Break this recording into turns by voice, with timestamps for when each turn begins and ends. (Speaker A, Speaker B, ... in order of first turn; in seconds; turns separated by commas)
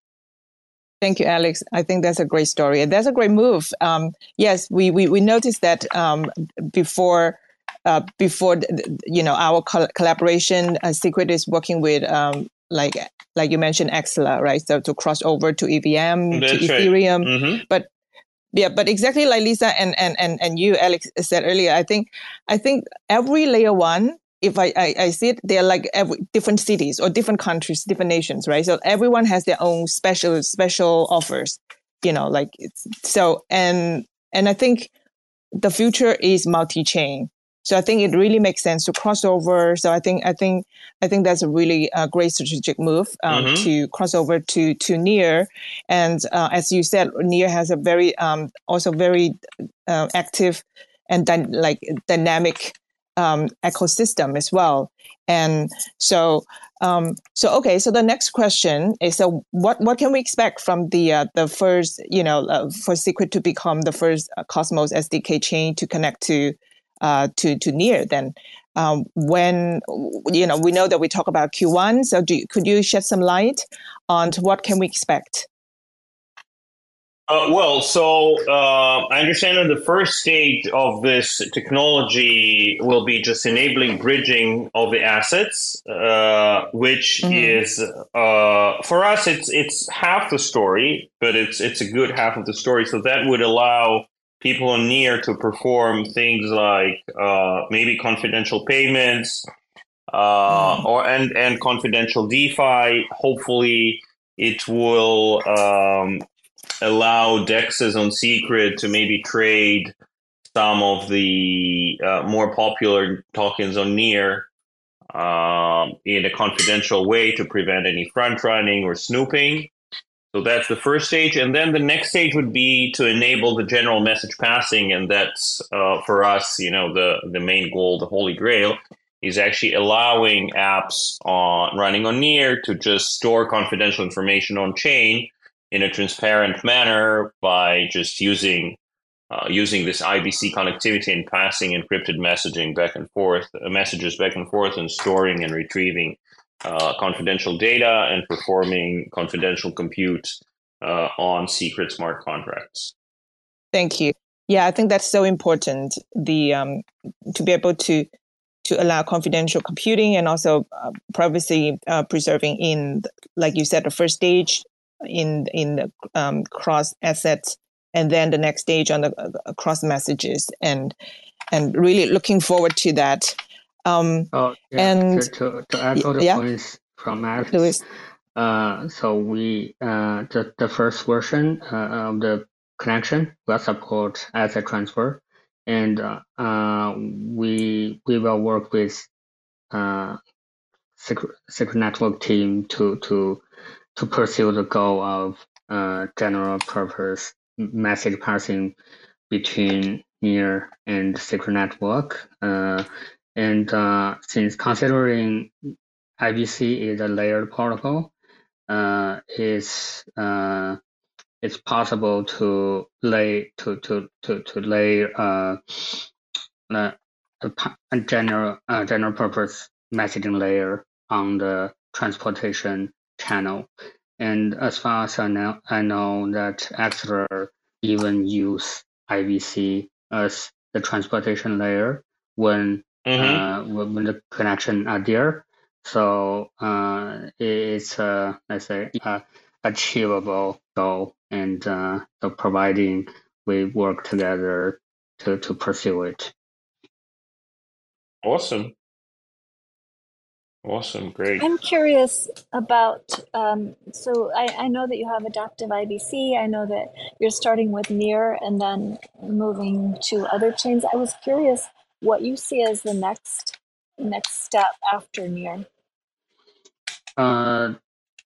Speaker A: 1.0-17.9, Speaker B: 16.3-17.6, Speaker A: 18.5-34.9, Speaker A: 35.6-75.5, Speaker B: 43.3-43.7, Speaker B: 77.3-99.4, Speaker A: 87.2-87.6, Speaker B: 100.1-106.2, Speaker A: 100.5-100.8, Speaker B: 106.8-109.9, Speaker B: 110.5-114.5, Speaker B: 115.1-119.7, Speaker B: 120.3-138.8, Speaker B: 139.3-152.9, Speaker A: 153.7-158.1, Speaker A: 158.6-170.9, Speaker A: 171.5-175.3, Speaker C: 174.3-177.8, Speaker A: 175.9-176.4, Speaker A: 177.5-177.8, Speaker C: 178.3-189.1, Speaker C: 189.7-190.2, Speaker C: 191.0-193.4, Speaker C: 193.9-198.7, Speaker C: 199.3-205.5, Speaker C: 206.2-208.1, Speaker C: 208.7-210.8, Speaker C: 211.4-216.1, Speaker C: 216.7-246.3, Speaker B: 233.1-233.4, Speaker B: 248.2-248.7, Speaker B: 250.6-251.5, Speaker D: 251.4-265.6, Speaker C: 267.2-267.7